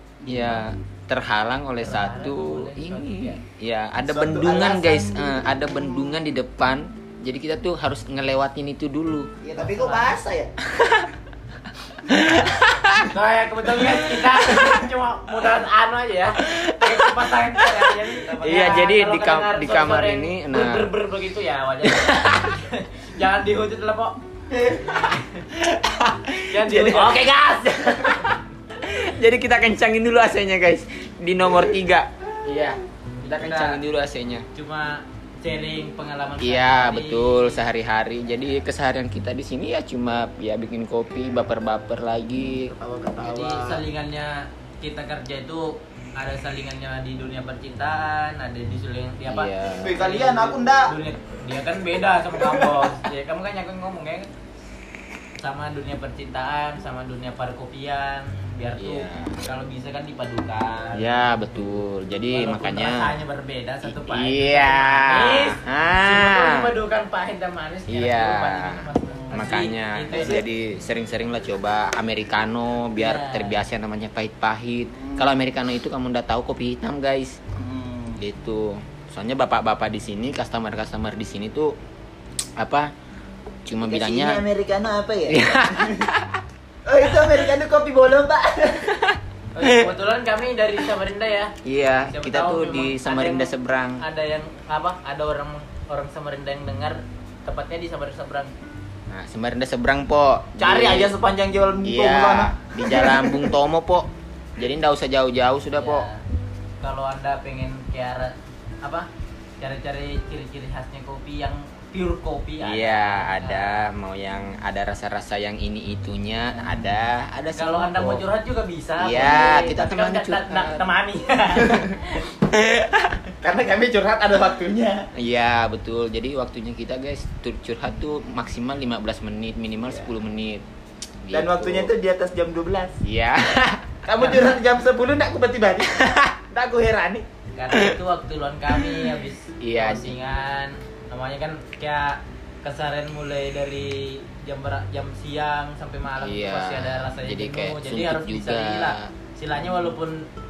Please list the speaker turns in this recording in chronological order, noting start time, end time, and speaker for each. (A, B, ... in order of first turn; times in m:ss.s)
0:00.2-0:00.7 A
0:00.3-0:09.3 B
0:01.8-0:03.4 C
0:04.0-0:06.1 A
0:09.4-0:10.5 A
0:09.6-0:10.1 C
0:10.8-0:11.1 B
0:12.1-0:13.1 B
0:12.1-0:25.5 C
0:13.8-0:14.8 B
0:16.4-0:20.9 B
0:18.2-0:18.7 A
0:25.6-0:27.2 B
0:26.5-0:27.3 C
0:26.8-0:28.2 A
0:28.1-0:34.5 B
0:33.2-0:33.8 C
0:34.5-0:37.6 C
0:36.4-0:42.7 B
0:42.5-0:43.8 A
0:43.2-0:54.3 C
0:49.3-0:50.0 B
0:49.8-0:50.9 A
0:52.4-0:52.8 A
0:55.4-1:01.3 C
0:58.8-0:59.4 B
1:00.9-1:03.2 B
1:02.3-1:10.4 C
1:03.8-1:06.7 B
1:07.9-1:17.4 B
1:10.1-1:10.4 A
1:13.0-1:13.6 C
1:14.9-1:15.3 A
1:17.6-1:18.2 A
1:18.2-1:21.7 B
1:22.6-1:22.9 B
1:23.7-1:24.4 B
1:23.9-1:26.1 A
1:25.3-1:26.4 B
1:26.9-1:29.1 A
1:29.5-1:31.5 C
1:29.6-1:29.9 B
1:31.6-1:34.0 B
1:32.1-1:38.5 C
1:39.1-1:41.1 B
1:40.6-1:43.5 A
1:41.8-1:46.1 B
1:45.8-1:46.2 C
1:46.8-1:49.1 C
1:49.6-1:53.9 C
1:52.6-1:58.2 B
1:57.6-2:02.4 C
1:59.0-2:00.9 B
2:02.5-2:03.2 B
2:03.4-2:05.0 A
2:05.2-2:10.6 B
2:11.2-2:11.9 B
2:11.3-2:13.0 A
2:13.0-2:13.9 B
2:14.0-2:17.2 A
2:17.6-2:30.3 C
2:19.6-2:20.2 B
2:26.2-2:29.1 B